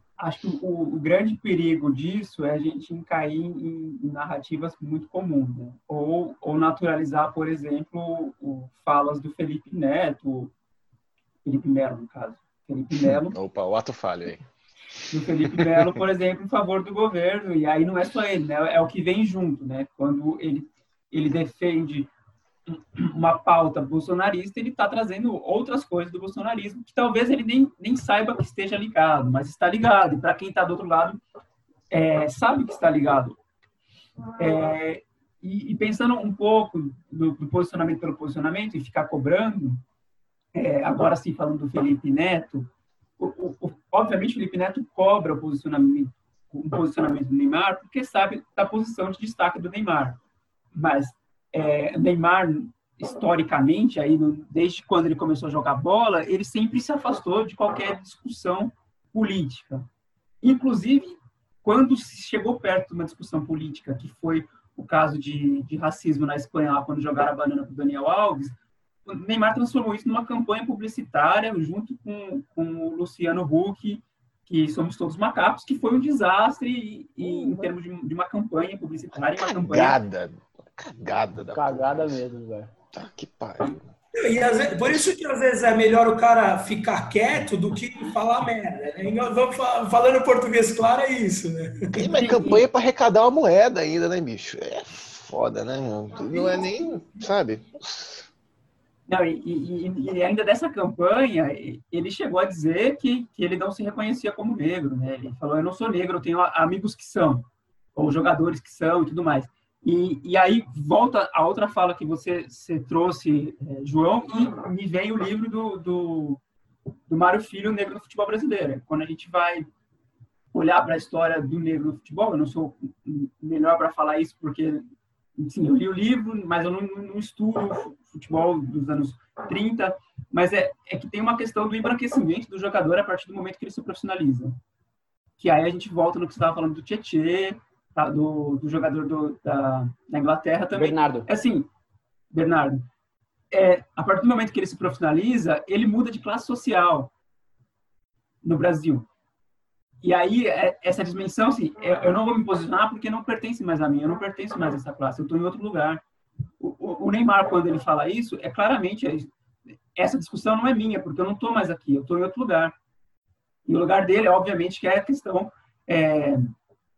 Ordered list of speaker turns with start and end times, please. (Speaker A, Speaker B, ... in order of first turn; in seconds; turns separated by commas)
Speaker A: 0.2-10.5, Speaker A: 11.4-13.3, Speaker B: 13.1-14.4, Speaker A: 15.1-22.1, Speaker B: 15.4-16.0, Speaker A: 22.7-31.2, Speaker A: 31.9-33.4, Speaker A: 34.4-39.8, Speaker A: 40.5-50.2, Speaker A: 50.7-59.9, Speaker A: 60.4-80.0, Speaker C: 77.2-77.7, Speaker B: 79.4-82.2, Speaker C: 81.5-82.7, Speaker B: 82.9-83.8, Speaker D: 84.1-92.1, Speaker B: 91.9-98.3, Speaker A: 92.1-92.6, Speaker A: 99.1-116.4, Speaker A: 117.1-119.7, Speaker A: 120.5-124.8, Speaker A: 125.4-134.6, Speaker A: 135.4-141.7, Speaker C: 140.7-141.3, Speaker A: 142.3-142.9, Speaker A: 143.5-147.1, Speaker A: 148.4-149.1, Speaker A: 150.0-156.0, Speaker A: 156.6-159.3, Speaker A: 159.9-162.7, Speaker A: 163.7-166.5